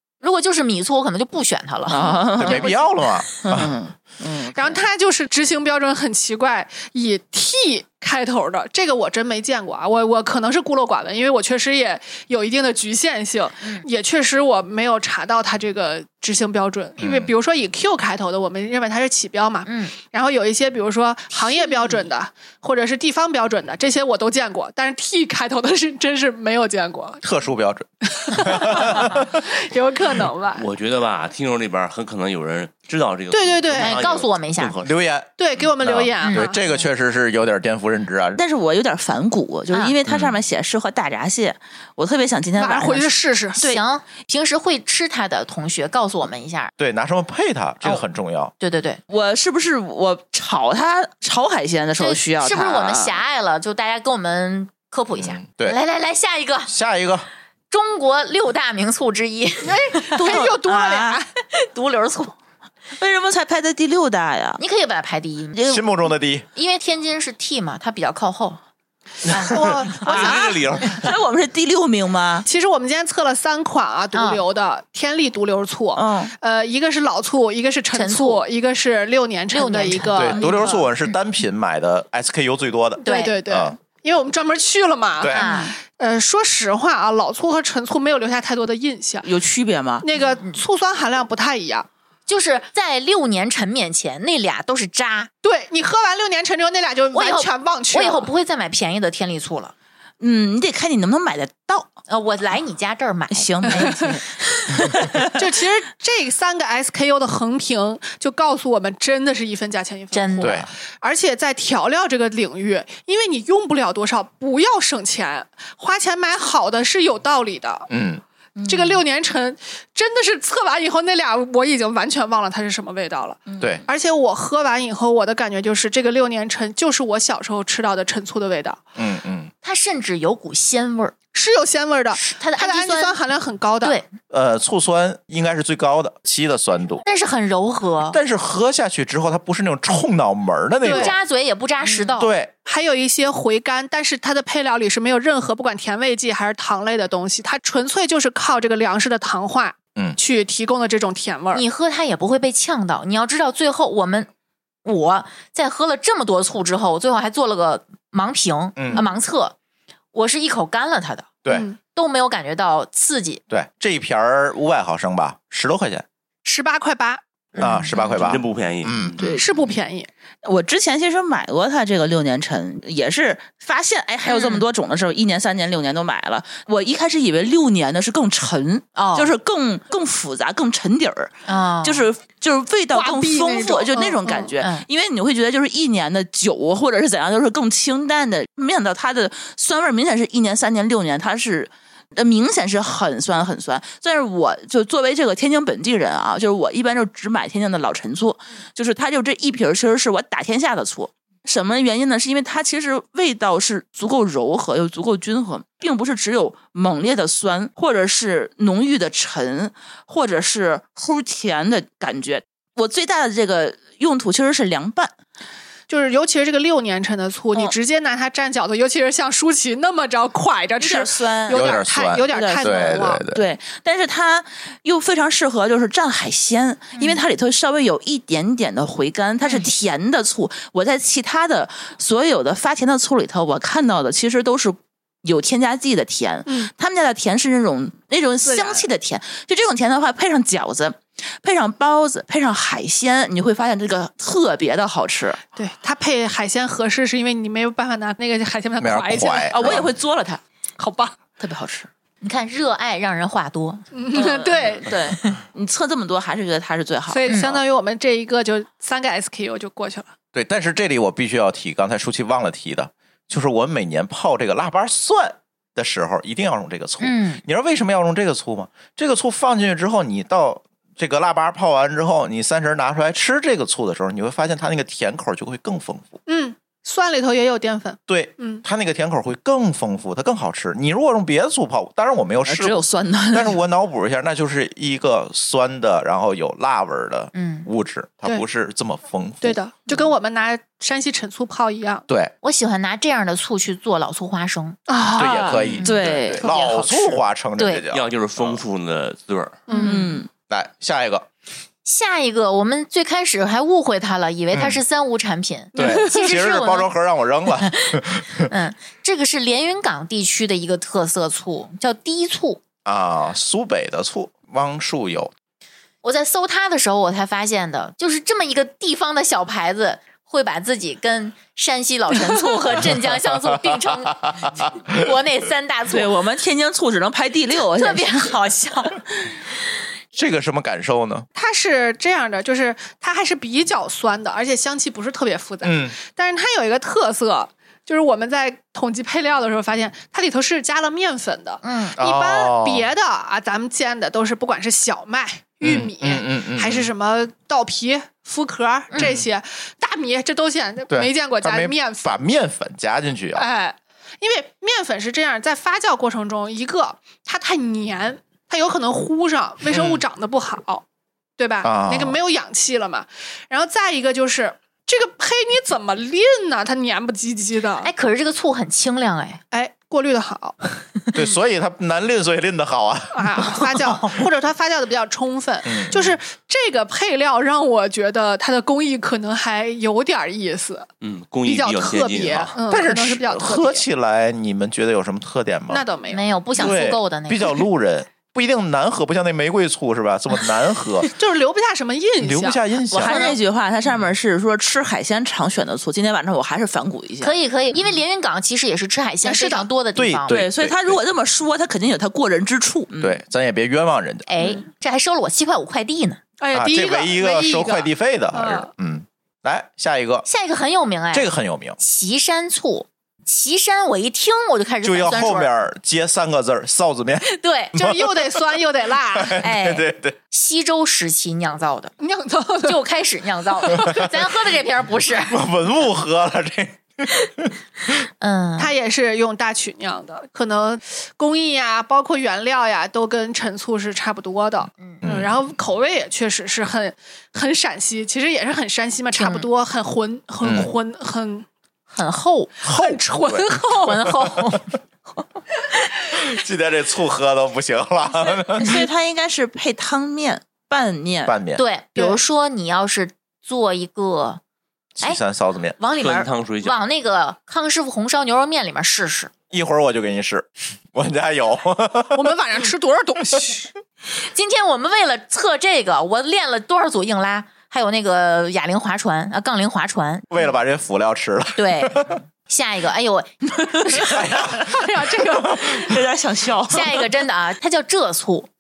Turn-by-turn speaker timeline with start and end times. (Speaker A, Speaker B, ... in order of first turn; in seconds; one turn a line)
Speaker A: 0.2-2.9
Speaker B: 1.9-2.7
Speaker C: 2.4-3.7
Speaker B: 3.4-4.8
Speaker D: 4.5-27.2
Speaker A: 13.6-13.9
Speaker C: 17.0-17.3
Speaker A: 19.6-19.9
Speaker A: 21.4-22.0
Speaker C: 27.2-29.4
Speaker D: 28.2-30.6
Speaker E: 30.6-35.0
Speaker D: 33.3-34.0
Speaker A: 33.8-34.8
Speaker C: 34.8-38.4
Speaker D: 35.4-36.6
Speaker A: 36.2-36.5
Speaker B: 38.4-43.8
Speaker C: 40.1-40.3
Speaker D: 42.6-43.6
Speaker A: 43.6-46.7
Speaker C: 46.8-48.5
Speaker A: 48.6-49.0
Speaker B: 49.1-53.2
Speaker A: 52.0-56.7
Speaker C: 55.2-55.8
Speaker C: 56.7-57.3
Speaker A: 57.7-60.5
Speaker D: 59.6-61.3
Speaker B: 60.1-61.2
Speaker A: 61.5-62.3
Speaker B: 63.0-64.6
Speaker A: 64.6-65.6
Speaker B: 65.5-65.9
Speaker C: 65.7-66.5
Speaker A: 66.5-68.6
Speaker A: 69.3-70.4
Speaker D: 69.5-70.4
Speaker E: 69.8-71.1
Speaker B: 70.0-72.5
Speaker D: 72.5-80.8
Speaker A: 74.1-74.4
Speaker B: 76.0-76.3
Speaker A: 77.9-78.4
Speaker A: 79.5-80.7
Speaker C: 80.1-83.8
Speaker B: 80.4-80.8
Speaker D: 83.0-89.3
Speaker A: 83.0-83.4
Speaker C: 85.2-85.5
Speaker A: 85.3-85.8
Speaker B: 89.2-90.0
Speaker D: 90.0-91.9
Speaker A: 92.3-95.3
Speaker D: 95.4-98.3
Speaker A: 97.1-99.7
Speaker B: 100.2-101.9
Speaker A: 102.1-104.9
Speaker B: 103.3-105.3
Speaker D: 103.7-104.1
Speaker D: 105.3-117.9
Speaker A: 110.1-110.7
Speaker C: 110.4-110.7
Speaker C: 117.9-118.2
Speaker B: 118.6-119.0
Speaker D: 118.7-128.8
Speaker B: 123.5-123.8
Speaker C: 129.0-129.5
Speaker A: 129.6-131.1
Speaker D: 131.3-134.0
Speaker A: 132.1-133.2
Speaker A: 133.8-134.1
Speaker C: 134.3-137.0
Speaker A: 137.1-138.2
Speaker C: 138.1-141.2
Speaker D: 140.8-141.2
Speaker A: 140.8-142.3
Speaker C: 142.2-142.5
Speaker D: 142.7-151.6
Speaker A: 151.5-154.3
Speaker A: 154.8-159.6
Speaker C: 158.8-159.1
Speaker A: 160.1-161.3
Speaker D: 161.5-161.8
Speaker A: 161.9-163.4
Speaker C: 163.5-166.1
Speaker D: 166.4-167.2
Speaker A: 167.6-168.3
Speaker C: 167.6-169.3
Speaker E: 168.2-169.2
Speaker B: 169.2-169.5
Speaker D: 169.2-170.1
Speaker B: 170.4-215.1
Speaker A: 174.3-174.6
Speaker A: 179.0-179.3
Speaker A: 181.5-182.1
Speaker D: 182.9-184.5
Speaker A: 184.6-184.9
Speaker D: 215.9-223.2
Speaker B: 220.8-245.4
Speaker C: 221.5-223.4
Speaker D: 229.4-229.7
Speaker D: 238.4-238.9
Speaker D: 245.6-249.8
Speaker C: 248.8-249.9
Speaker B: 249.5-250.4
Speaker D: 250.8-251.2
Speaker B: 251.4-251.9
Speaker A: 252.2-253.8
Speaker D: 253.9-254.9
Speaker B: 254.1-257.5
Speaker D: 257.1-260.1
Speaker A: 257.3-257.6
Speaker C: 260.3-276.2
Speaker A: 267.0-267.4
Speaker D: 276.3-278.6
Speaker C: 278.1-289.6
Speaker B: 282.5-283.6
Speaker A: 287.3-287.7
Speaker D: 289.4-292.1
Speaker C: 292.1-292.3
Speaker A: 292.4-294.8
Speaker D: 294.9-295.8
Speaker B: 295.2-296.4
Speaker C: 295.2-298.6
Speaker A: 295.8-296.0
Speaker D: 296.3-297.2
Speaker A: 296.6-297.0
Speaker A: 297.6-297.8
Speaker E: 297.9-299.7
Speaker D: 299.7-300.2
Speaker B: 299.7-300.3
Speaker C: 300.5-301.3
Speaker A: 301.9-306.9
Speaker C: 304.5-304.8
Speaker D: 305.8-306.2
Speaker C: 305.8-308.5
Speaker A: 307.6-312.6
Speaker C: 312.9-315.3
Speaker A: 316.0-326.1
Speaker C: 323.1-324.5
Speaker B: 325.9-328.4
Speaker A: 327.8-329.0
Speaker C: 330.1-331.3
Speaker D: 331.4-352.1
Speaker C: 335.6-335.9
Speaker A: 341.6-342.0
Speaker C: 342.0-342.9
Speaker C: 345.6-346.9
Speaker C: 349.0-349.3
Speaker C: 350.9-353.4
Speaker D: 353.4-360.8
Speaker C: 359.7-360.0
Speaker D: 361.4-367.9
Speaker C: 361.6-362.2
Speaker A: 367.8-369.4
Speaker D: 369.5-370.6
Speaker C: 371.1-374.0
Speaker D: 373.1-380.9
Speaker C: 375.6-376.2
Speaker E: 381.0-382.6
Speaker D: 381.4-383.9
Speaker C: 382.7-385.9
Speaker D: 385.7-386.2
Speaker A: 386.1-387.6
Speaker C: 386.6-391.1
Speaker D: 391.1-392.6
Speaker C: 392.2-393.1
Speaker B: 392.9-397.3
Speaker A: 393.0-393.4
Speaker A: 397.2-400.4
Speaker D: 399.2-399.7
Speaker C: 400.0-401.0
Speaker B: 400.3-403.2
Speaker C: 403.0-404.3
Speaker A: 404.3-406.2
Speaker D: 406.4-408.7
Speaker C: 406.5-410.3
Speaker A: 410.3-415.5
Speaker C: 411.1-411.8
Speaker C: 414.8-418.6
Speaker A: 417.2-417.7
Speaker D: 417.8-419.4
Speaker C: 419.1-420.2
Speaker A: 419.4-421.9
Speaker D: 422.0-422.8
Speaker A: 422.6-425.4
Speaker D: 423.6-424.0
Speaker C: 425.3-427.5
Speaker A: 428.2-428.7
Speaker D: 428.6-441.5
Speaker C: 435.0-435.3
Speaker A: 439.1-439.5
Speaker C: 440.4-440.7
Speaker A: 441.9-442.6
Speaker D: 442.6-444.1
Speaker C: 442.6-443.5
Speaker A: 443.5-444.7
Speaker C: 446.1-448.9
Speaker B: 448.6-451.4
Speaker C: 451.3-451.6
Speaker A: 451.6-454.4
Speaker C: 455.0-455.8
Speaker A: 455.8-459.3
Speaker E: 455.9-456.8
Speaker C: 459.5-462.3
Speaker D: 462.1-463.7
Speaker A: 464.2-470.3
Speaker C: 470.3-472.2
Speaker A: 471.6-474.2
Speaker C: 474.0-476.0
Speaker D: 474.6-475.9
Speaker B: 475.4-477.1
Speaker A: 476.7-478.5